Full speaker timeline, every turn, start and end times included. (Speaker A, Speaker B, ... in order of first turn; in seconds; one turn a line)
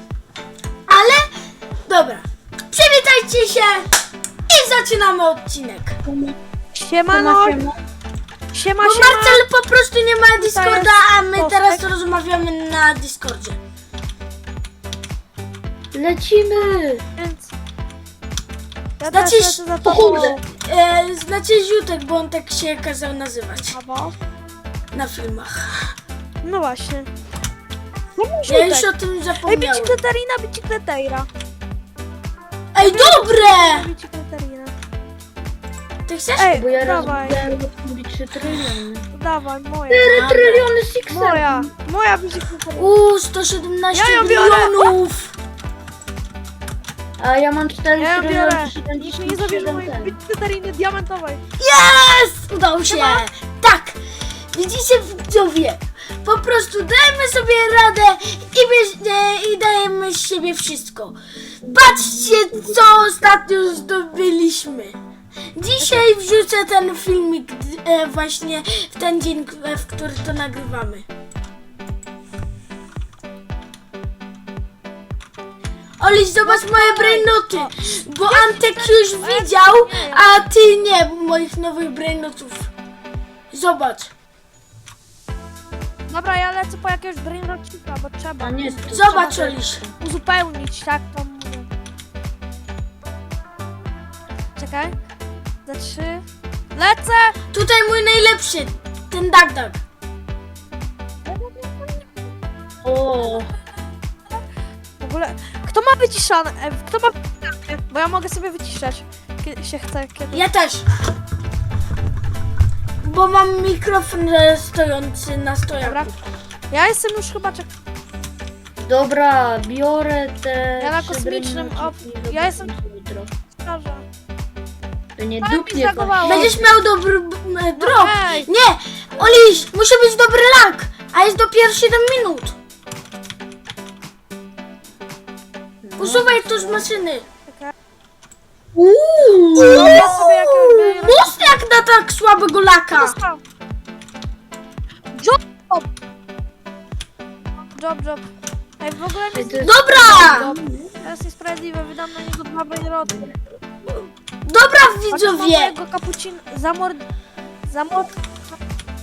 Speaker A: 0.9-3.9
Speaker A: 4.5-6.0
Speaker B: 6.1-6.4
Speaker C: 6.8-7.6
Speaker B: 7.1-7.8
Speaker C: 8.5-9.4
Speaker A: 8.8-13.6
Speaker C: 10.4-11.8
Speaker B: 15.9-17.1
Speaker C: 17.2-17.5
Speaker C: 19.0-20.4
Speaker A: 19.1-23.8
Speaker B: 19.8-20.4
Speaker C: 23.7-24.2
Speaker A: 24.9-25.9
Speaker C: 26.4-27.1
Speaker C: 28.2-28.9
Speaker A: 28.5-30.0
Speaker C: 29.5-31.3
Speaker A: 32.7-33.9
Speaker C: 32.8-34.7
Speaker A: 36.1-36.6
Speaker C: 36.4-37.4
Speaker B: 36.5-39.1
Speaker C: 39.1-40.6
Speaker B: 39.9-41.7
Speaker A: 40.1-40.6
Speaker C: 41.1-42.9
Speaker A: 42.8-45.4
Speaker C: 43.9-45.0
Speaker B: 47.2-50.1
Speaker C: 48.0-51.4
Speaker A: 51.6-54.0
Speaker C: 52.9-53.2
Speaker A: 54.5-61.2
Speaker B: 61.6-62.8
Speaker A: 61.7-65.0
Speaker A: 65.5-71.1
Speaker A: 76.0-82.7
Speaker C: 76.5-80.3
Speaker A: 83.5-84.1
Speaker C: 86.1-91.7
Speaker B: 88.4-89.9
Speaker A: 88.9-89.9
Speaker C: 94.6-95.0
Speaker C: 95.7-96.2
Speaker C: 96.8-97.4
Speaker A: 97.5-99.8
Speaker C: 101.3-102.1
Speaker B: 102.8-103.5
Speaker C: 105.0-110.5
Speaker A: 110.3-110.9
Speaker A: 113.0-116.2
Speaker C: 115.8-116.1
Speaker C: 116.7-117.7
Speaker B: 118.8-123.3
Speaker C: 120.8-122.7
Speaker C: 123.5-124.0
Speaker B: 125.2-126.7
Speaker C: 125.4-126.6
Speaker A: 126.2-132.6
Speaker C: 127.8-128.5
Speaker C: 129.2-129.5
Speaker B: 135.8-136.9
Speaker A: 136.0-137.3
Speaker C: 137.5-137.7
Speaker B: 138.8-140.2
Speaker A: 139.6-143.2
Speaker C: 139.6-141.6
Speaker C: 142.9-143.4
Speaker C: 145.1-145.9
Speaker C: 147.7-148.2
Speaker C: 148.8-153.3
Speaker B: 149.3-151.1
Speaker A: 149.6-150.5
Speaker B: 153.1-153.3
Speaker A: 154.4-155.8
Speaker C: 155.1-157.1
Speaker C: 157.7-158.2